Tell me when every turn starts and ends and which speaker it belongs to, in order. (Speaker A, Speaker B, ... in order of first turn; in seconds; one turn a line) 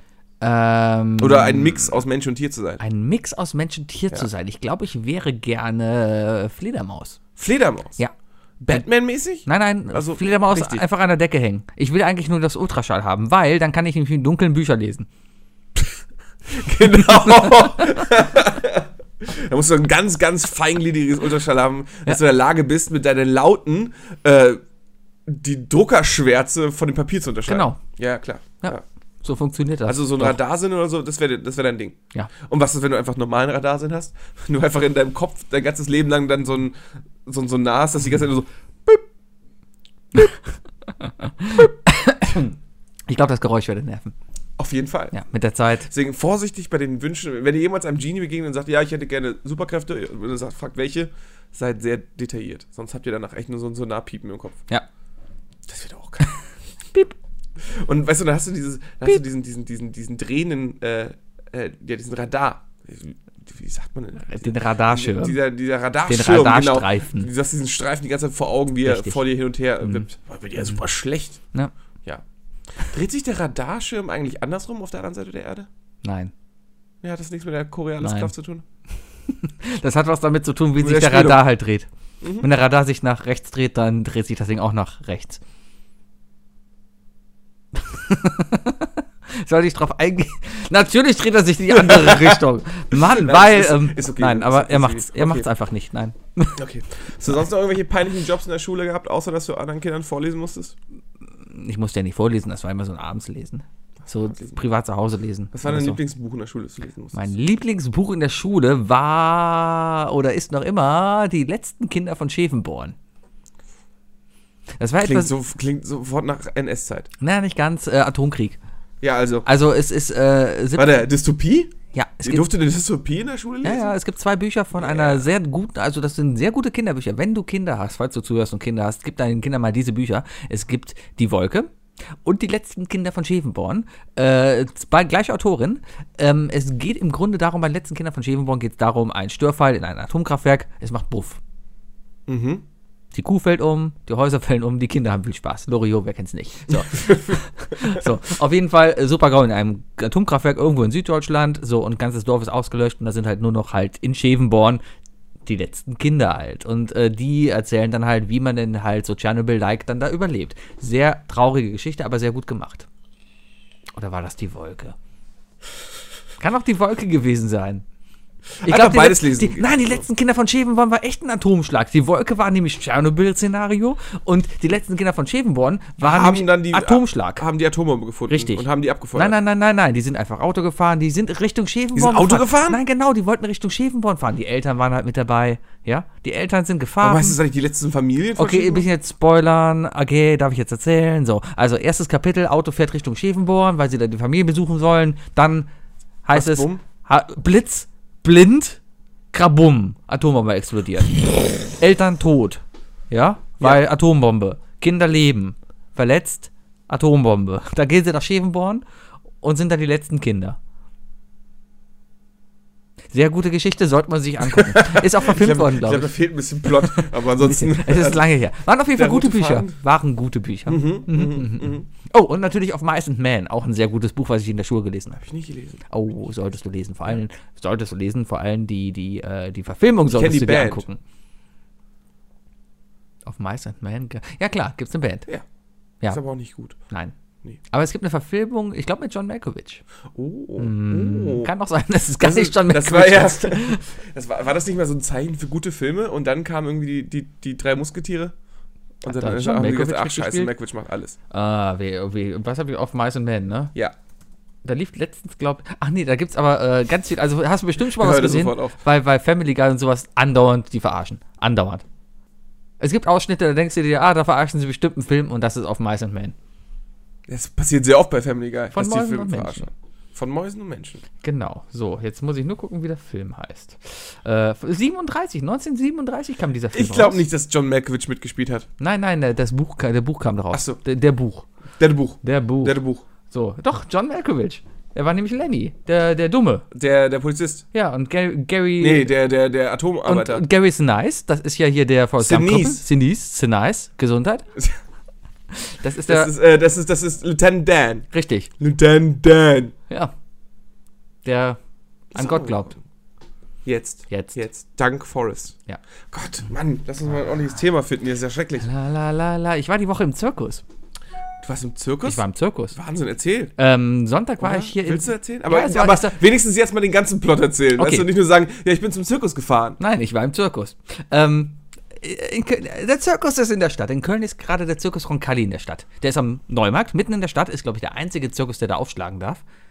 Speaker A: 0.4-2.0
Speaker B: 1.2-2.8
Speaker A: 2.8-7.2
Speaker B: 7.3-8.0
Speaker B: 8.6-10.8
Speaker A: 9.4-15.1
Speaker B: 16.5-24.6
Speaker B: 25.3-28.8
Speaker A: 27.5-27.8
Speaker A: 28.6-30.4
Speaker B: 29.9-39.0
Speaker A: 41.0-42.5
Speaker A: 43.1-44.1
Speaker B: 44.6-45.1
Speaker A: 45.1-45.9
Speaker B: 45.9-54.6
Speaker B: 55.7-56.3
Speaker B: 57.6-71.4
Speaker A: 64.2-65.4
Speaker A: 66.0-67.3
Speaker A: 68.8-69.2
Speaker A: 69.8-70.1
Speaker B: 72.8-75.7
Speaker A: 76.0-76.3
Speaker B: 77.0-78.6
Speaker A: 78.0-78.3
Speaker A: 79.3-85.4
Speaker B: 80.8-81.4
Speaker B: 82.2-82.5
Speaker A: 87.8-96.6
Speaker B: 91.7-95.5
Speaker B: 96.6-100.8
Speaker A: 101.4-106.0
Speaker B: 104.3-104.6
Speaker B: 105.5-107.3
Speaker A: 107.1-113.0
Speaker A: 114.8-115.3
Speaker B: 115.0-117.1
Speaker A: 117.2-118.6
Speaker B: 119.0-119.5
Speaker A: 119.4-121.0
Speaker B: 120.8-123.9
Speaker A: 121.9-122.5
Speaker A: 123.6-131.7
Speaker B: 124.7-125.3
Speaker A: 132.2-141.4
Speaker B: 142.3-142.6
Speaker A: 143.1-154.8
Speaker B: 146.8-147.4
Speaker A: 155.4-162.9
Speaker A: 163.9-164.9
Speaker A: 166.4-167.8
Speaker B: 168.6-170.0
Speaker A: 168.6-177.4
Speaker B: 176.0-179.3
Speaker A: 178.3-187.4
Speaker B: 181.9-182.8
Speaker B: 187.0-188.9
Speaker A: 188.4-195.7
Speaker A: 196.2-198.8
Speaker B: 196.3-196.8
Speaker A: 199.3-208.8
Speaker A: 209.4-210.6
Speaker A: 213.1-216.1
Speaker B: 214.4-218.3
Speaker A: 216.8-225.2
Speaker B: 218.9-219.8
Speaker B: 220.7-221.8
Speaker B: 225.2-225.8
Speaker A: 225.9-231.0
Speaker B: 230.1-230.8
Speaker A: 233.2-235.3
Speaker B: 236.1-236.8
Speaker A: 236.9-237.1
Speaker A: 237.7-239.8
Speaker B: 240.1-241.5
Speaker A: 240.6-243.8
Speaker B: 242.2-248.3
Speaker B: 249.0-251.2
Speaker A: 249.1-250.5
Speaker A: 251.3-253.7
Speaker A: 254.6-261.8
Speaker B: 257.8-258.8
Speaker A: 262.8-266.3
Speaker B: 267.3-271.0
Speaker A: 268.7-269.7
Speaker A: 271.2-277.2
Speaker B: 276.7-278.7
Speaker A: 278.8-281.4
Speaker B: 280.5-280.8
Speaker B: 281.8-283.0
Speaker A: 282.2-286.6
Speaker B: 286.7-287.6
Speaker A: 287.7-289.1
Speaker B: 288.8-290.4
Speaker A: 290.0-294.4
Speaker B: 292.2-292.8
Speaker A: 295.5-296.3
Speaker B: 296.1-298.1
Speaker A: 298.1-298.5
Speaker B: 298.6-299.7
Speaker A: 301.2-301.6
Speaker B: 302.1-302.8
Speaker A: 302.1-302.7
Speaker B: 303.6-305.6
Speaker A: 304.1-304.4
Speaker B: 306.1-308.7
Speaker A: 308.6-310.6
Speaker B: 311.4-313.5
Speaker A: 312.0-312.8
Speaker A: 313.6-316.1
Speaker B: 314.4-319.8
Speaker A: 317.8-318.1
Speaker A: 319.8-329.4